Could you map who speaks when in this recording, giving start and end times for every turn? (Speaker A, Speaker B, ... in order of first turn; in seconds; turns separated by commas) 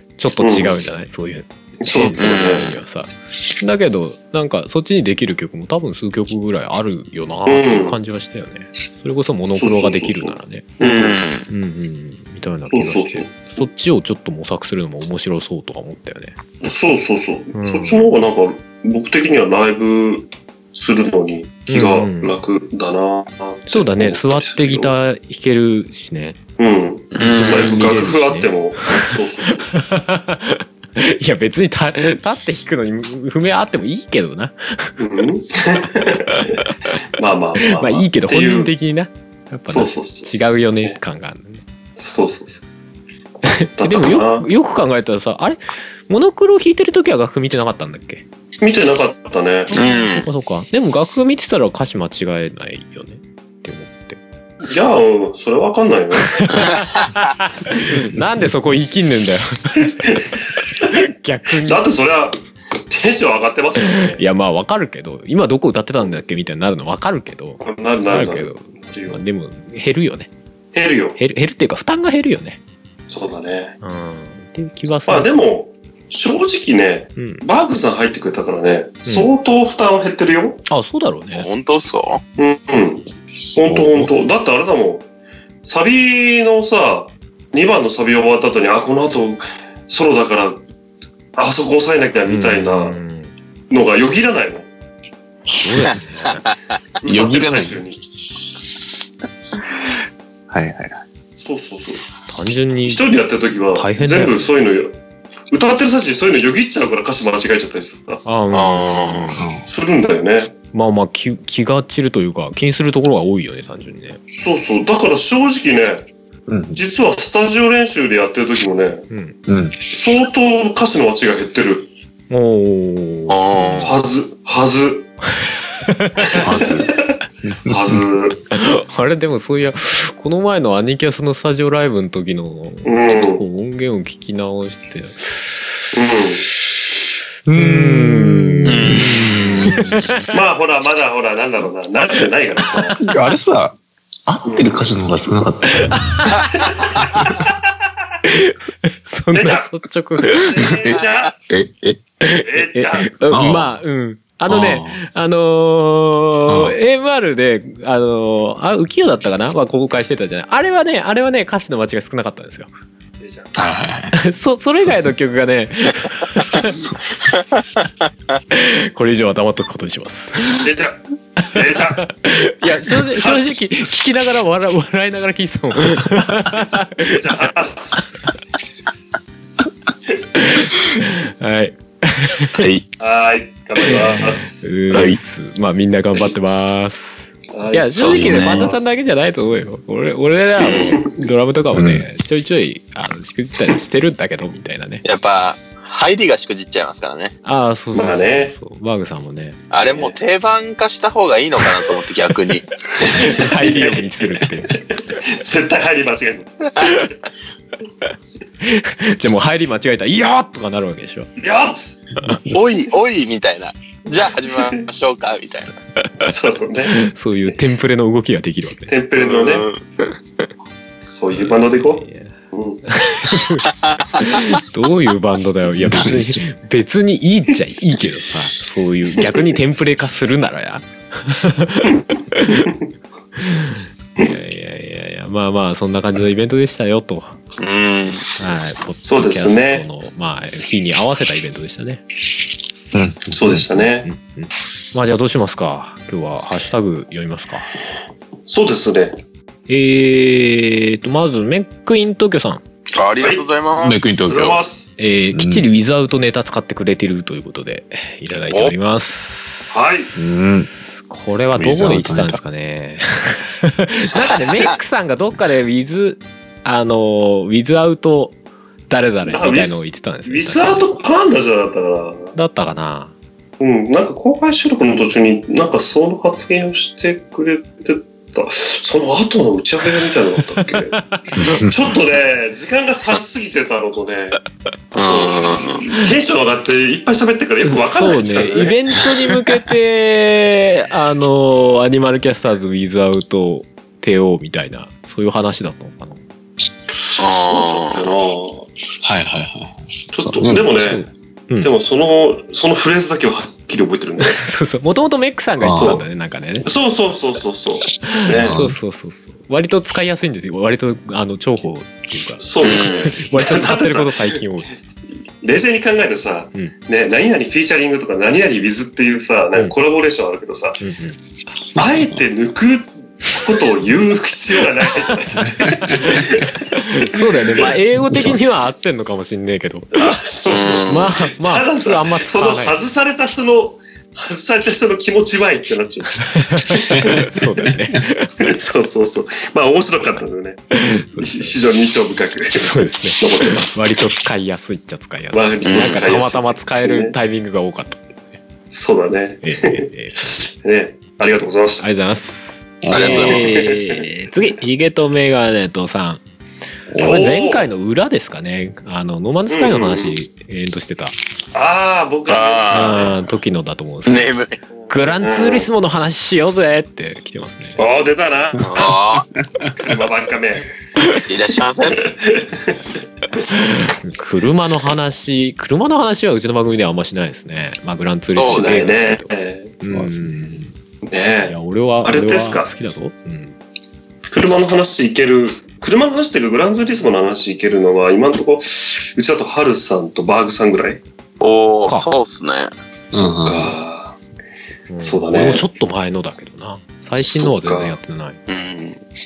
Speaker A: 0.2-10.7, Speaker B: 0.4-0.8, Speaker B: 1.8-2.8, Speaker C: 2.2-2.7, Speaker B: 7.5-8.0, Speaker B: 9.6-11.2, Speaker C: 10.8-11.5, Speaker A: 11.5-16.3, Speaker B: 12.7-13.4, Speaker B: 16.6-24.9, Speaker A: 17.5-18.1, Speaker A: 21.7-22.4, Speaker A: 23.7-26.4, Speaker B: 26.6-29.8, Speaker C: 27.1-27.8, Speaker A: 27.2-29.1, Speaker A: 29.7-34.9, Speaker B: 35.0-38.7, Speaker A: 37.6-41.6, Speaker B: 39.7-41.0, Speaker B: 42.0-42.6, Speaker A: 43.4-48.2, Speaker B: 43.8-44.5, Speaker B: 48.6-49.7, Speaker A: 49.7-54.2, Speaker C: 49.7-50.3, Speaker B: 54.7-56.5, Speaker A: 56.2-60.2, Speaker B: 60.0-60.9, Speaker A: 60.8-61.9, Speaker B: 61.6-62.4, Speaker B: 62.9-64.2, Speaker A: 63.8-70.3, Speaker B: 66.0-66.3, Speaker B: 67.6-69.2, Speaker B: 70.7-71.2, Speaker A: 71.2-72.6, Speaker B: 73.1-73.8, Speaker A: 73.8-75.4, Speaker B: 75.1-80.6, Speaker A: 77.2-77.4, Speaker A: 80.7-81.5, Speaker C: 81.3-82.2, Speaker B: 82.4-85.1, Speaker A: 83.7-84.1, Speaker B: 85.7-90.6, Speaker B: 91.4-93.0, Speaker A: 92.3-93.3, Speaker B: 93.7-94.7, Speaker A: 95.6-96.5, Speaker B: 97.0-98.0, Speaker D: 97.0-97.8, Speaker D: 100.5-101.0, Speaker B: 101.4-102.0, Speaker A: 102.3-103.0, Speaker B: 102.9-105.0, Speaker A: 103.8-104.5, Speaker B: 105.5-108.2, Speaker A: 108.2-109.5, Speaker C: 108.5-109.4, Speaker D: 109.4-109.6, Speaker B: 109.7-110.5, Speaker A: 110.7-114.2, Speaker B: 114.4-116.1, Speaker D: 116.5-116.8, Speaker B: 116.7-119.1, Speaker A: 119.1-119.4, Speaker D: 119.5-119.8, Speaker B: 119.9-121.9, Speaker A: 122.3-124.0, Speaker C: 123.3-124.0, Speaker B: 123.8-125.1, Speaker A: 125.8-126.4, Speaker B: 126.3-127.1, Speaker D: 126.4-128.0, Speaker B: 127.7-128.4, Speaker A: 128.5-135.4, Speaker B: 132.8-133.4, Speaker B: 135.9-136.5, Speaker D: 137.5-139.9, Speaker A: 137.6-140.2, Speaker C: 138.7-139.6, Speaker B: 140.3-143.0, Speaker A: 142.8-143.1, Speaker D: 143.0-146.3, Speaker B: 144.4-144.8, Speaker A: 145.8-146.4, Speaker B: 146.6-147.5, Speaker A: 148.2-150.6, Speaker B: 149.3-149.7, Speaker B: 150.3-151.3, Speaker D: 150.9-152.0, Speaker A: 152.2-162.7, Speaker B: 152.4-153.2, Speaker D: 153.3-153.7, Speaker D: 154.5-155.0, Speaker D: 156.5-156.8, Speaker B: 163.2-163.5, Speaker D: 163.6-164.2, Speaker A: 164.2-166.8, Speaker D: 164.8-165.1, Speaker D: 166.5-167.0, Speaker A: 168.5-170.7, Speaker B: 170.6-172.0, Speaker A: 172.0-177.3, Speaker B: 173.2-173.5, Speaker B: 177.1-178.2, Speaker A: 180.3-182.7, Speaker D: 182.6-182.8, Speaker B: 183.0-184.8, Speaker A: 183.8-195.0, Speaker D: 184.9-185.2, Speaker B: 187.5-188.7, Speaker C: 187.9-188.7, Speaker D: 188.1-188.8, Speaker C: 190.6-191.0, Speaker B: 190.6-191.1, Speaker D: 191.7-192.0, Speaker C: 195.0-197.3, Speaker A: 197.4-199.6, Speaker B: 197.9-198.5, Speaker C: 199.7-202.8, Speaker B: 199.9-200.2, Speaker A: 202.9-204.8, Speaker B: 203.0-207.2, Speaker A: 208.6-211.3, Speaker B: 211.4-212.0, Speaker C: 212.5-215.8, Speaker B: 214.5-214.8, Speaker B: 216.2-217.0, Speaker A: 216.9-218.9, Speaker B: 218.9-219.7, Speaker C: 219.2-219.8, Speaker B: 221.1-222.8, Speaker A: 221.3-222.3, Speaker A: 222.9-232.7, Speaker D: 225.8-226.4, Speaker A: 233.4-237.4, Speaker C: 237.6-238.3, Speaker A: 238.4-242.0, Speaker B: 239.0-239.9, Speaker D: 242.9-243.7, Speaker B: 243.3-244.1, Speaker A: 244.1-247.8, Speaker B: 248.5-249.2, Speaker A: 249.7-252.6, Speaker C: 252.9-254.0, Speaker D: 253.8-254.6, Speaker B: 254.3-254.9, Speaker A: 255.0-259.7, Speaker D: 255.3-255.7, Speaker B: 259.7-260.1, Speaker D: 260.2-260.7, Speaker A: 261.1-268.4, Speaker D: 261.6-262.4, Speaker A: 268.9-271.0, Speaker B: 269.3-272.3, Speaker A: 272.4-273.1, Speaker B: 273.6-281.0, Speaker A: 280.6-281.7, Speaker D: 281.4-281.8, Speaker B: 281.6-284.4, Speaker C: 284.9-285.8, Speaker B: 285.0-288.8, Speaker A: 287.6-296.2, Speaker B: 296.9-298.7, Speaker C: 297.2-298.1, Speaker D: 299.0-300.9, Speaker B: 300.1-301.1, Speaker A: 300.6-301.7, Speaker B: 301.6-304.4, Speaker A: 304.2-306.7, Speaker D: 305.6-306.0, Speaker B: 305.7-306.0, Speaker B: 306.6-308.6, Speaker A: 308.0-314.7, Speaker D: 308.3-308.8, Speaker B: 312.4-314.3, Speaker C: 312.6-313.2, Speaker B: 315.4-320.8, Speaker A: 320.8-321.2, Speaker B: 321.8-327.7, Speaker D: 325.4-326.3, Speaker A: 326.9-330.1, Speaker D: 328.1-328.4, Speaker B: 329.9-337.3, Speaker C: 330.5-331.1, Speaker A: 330.9-332.8, Speaker A: 336.5-338.3, Speaker B: 338.4-343.9, Speaker A: 340.7-341.6, Speaker A: 342.6-348.4, Speaker B: 345.3-347.1, Speaker C: 345.6-346.0, Speaker B: 348.7-351.9, Speaker A: 349.4-350.5, Speaker A: 351.8-356.2, Speaker D: 352.8-353.6, Speaker C: 352.9-353.7, Speaker B: 353.0-354.1, Speaker B: 356.9-357.6, Speaker A: 357.0-361.1, Speaker B: 359.5-360.2, Speaker B: 361.5-363.1, Speaker C: 362.3-363.1, Speaker A: 362.7-364.3, Speaker C: 364.1-364.6, Speaker B: 364.7-365.7, Speaker A: 364.9-367.8, Speaker B: 367.8-368.9, Speaker C: 368.6-369.3, Speaker B: 369.6-370.7, Speaker C: 371.2-372.0, Speaker B: 371.9-372.8, Speaker A: 373.5-379.3, Speaker C: 378.3-378.9, Speaker B: 378.4-379.8, Speaker A: 379.8-380.7, Speaker D: 379.9-380.6, Speaker B: 381.1-382.7, Speaker A: 381.5-383.6, Speaker B: 384.2-391.0, Speaker C: 391.4-392.7, Speaker A: 391.9-392.1, Speaker B: 393.1-394.2, Speaker D: 393.1-393.8, Speaker A: 394.9-398.4, Speaker B: 395.0-395.6, Speaker B: 397.2-398.0, Speaker C: 398.5-399.0